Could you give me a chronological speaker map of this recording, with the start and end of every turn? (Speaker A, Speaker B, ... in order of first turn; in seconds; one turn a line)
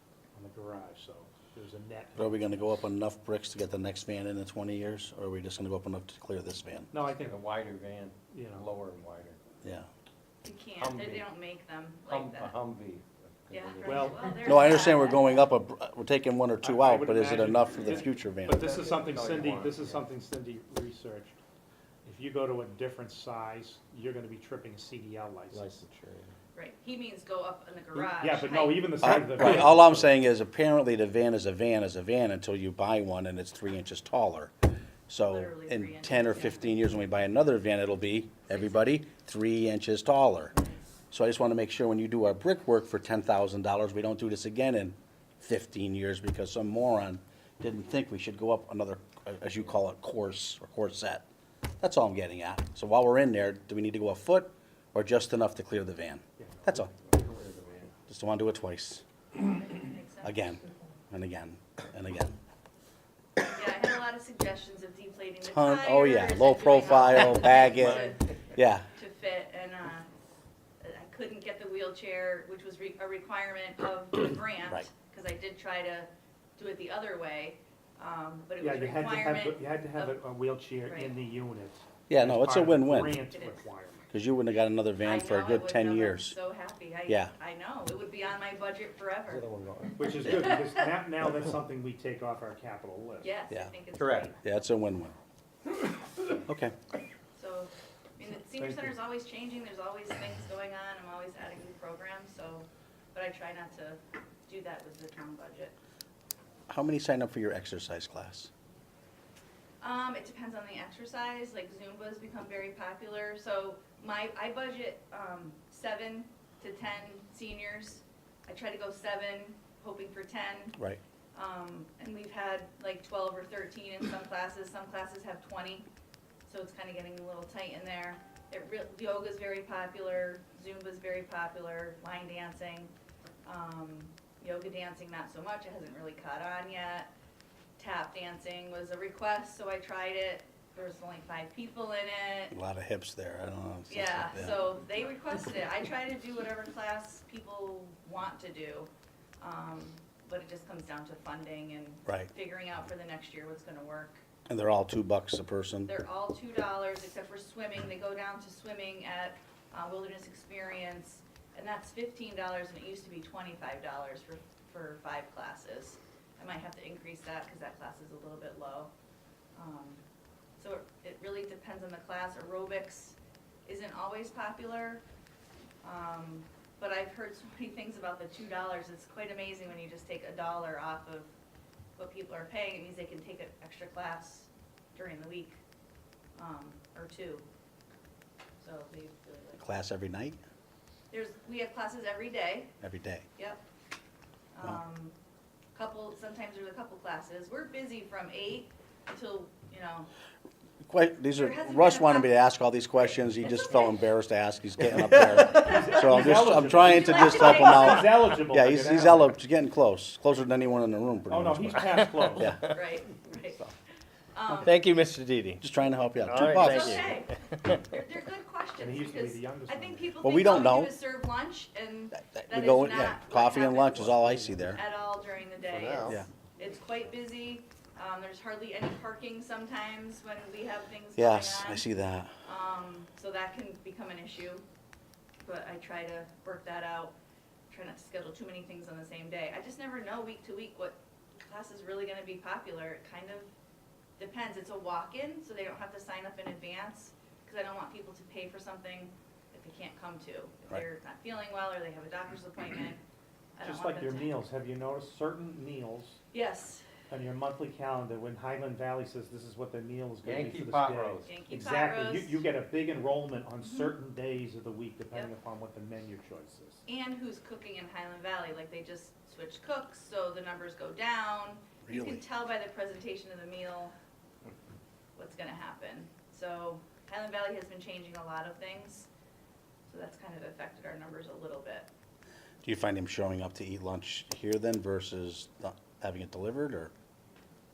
Speaker A: 0.3-2.6
Speaker B: 2.1-6.9
Speaker A: 6.9-7.4
Speaker C: 7.1-9.4
Speaker A: 8.3-8.7
Speaker D: 10.4-12.5
Speaker C: 10.8-11.2
Speaker C: 12.1-14.7
Speaker D: 13.5-15.5
Speaker A: 13.8-14.3
Speaker B: 14.4-18.6
Speaker A: 16.6-21.4
Speaker C: 18.6-20.0
Speaker A: 22.0-25.6
Speaker C: 25.5-26.4
Speaker D: 26.5-29.5
Speaker A: 27.9-30.1
Speaker B: 29.0-34.5
Speaker B: 35.1-40.5
Speaker D: 35.2-36.8
Speaker D: 38.5-38.8
Speaker D: 40.5-40.8
Speaker B: 41.1-51.2
Speaker B: 51.8-56.9
Speaker A: 56.4-56.8
Speaker C: 56.9-58.0
Speaker B: 58.1-59.0
Speaker D: 59.4-60.4
Speaker B: 60.2-62.4
Speaker D: 63.5-68.2
Speaker B: 65.5-68.8
Speaker C: 67.7-68.1
Speaker D: 68.9-70.1
Speaker D: 70.8-80.2
Speaker A: 78.6-84.1
Speaker D: 80.9-81.1
Speaker B: 82.1-83.2
Speaker D: 83.3-83.6
Speaker B: 84.1-86.3
Speaker D: 85.0-89.4
Speaker B: 87.1-87.3
Speaker C: 89.3-90.4
Speaker A: 90.0-93.3
Speaker D: 90.2-90.6
Speaker D: 93.2-94.4
Speaker C: 94.0-94.3
Speaker B: 94.4-95.1
Speaker B: 96.5-96.7
Speaker D: 97.3-105.8
Speaker B: 106.7-108.5
Speaker D: 109.8-120.8
Speaker D: 121.3-125.8
Speaker D: 126.5-132.9
Speaker D: 133.4-137.1
Speaker D: 137.8-142.6
Speaker B: 142.5-144.6
Speaker D: 143.9-154.2
Speaker B: 154.5-155.9
Speaker D: 155.8-168.9
Speaker D: 169.5-170.0
Speaker D: 170.6-175.0
Speaker D: 175.8-181.3
Speaker D: 182.0-185.6
Speaker D: 186.3-187.4
Speaker D: 188.6-189.6
Speaker B: 189.6-190.4
Speaker D: 191.1-192.7
Speaker B: 192.8-193.2
Speaker D: 193.3-193.6
Speaker D: 194.5-195.2
Speaker D: 195.7-200.1
Speaker B: 200.8-212.6
Speaker D: 201.3-202.3
Speaker C: 205.0-205.4
Speaker A: 205.5-209.3
Speaker D: 206.8-208.1
Speaker A: 211.3-212.5
Speaker C: 212.2-213.0
Speaker D: 212.7-213.6
Speaker D: 214.3-214.8
Speaker C: 214.5-215.6
Speaker B: 215.6-217.1
Speaker C: 216.2-218.0
Speaker D: 216.4-224.1
Speaker A: 218.8-220.2
Speaker B: 220.2-220.9
Speaker B: 222.2-224.8
Speaker C: 224.0-224.7
Speaker D: 224.7-231.8
Speaker C: 225.7-226.2
Speaker B: 231.2-232.3
Speaker D: 232.4-234.6
Speaker D: 235.4-237.1
Speaker D: 237.7-243.5
Speaker D: 244.2-253.0
Speaker D: 253.6-254.4
Speaker A: 253.6-256.2
Speaker D: 256.3-256.8
Speaker A: 257.1-266.8
Speaker C: 260.2-261.4
Speaker D: 261.2-262.4
Speaker D: 263.6-263.9
Speaker D: 266.9-273.9
Speaker B: 271.8-272.2
Speaker D: 275.1-279.1
Speaker D: 279.9-281.9
Speaker B: 282.6-286.9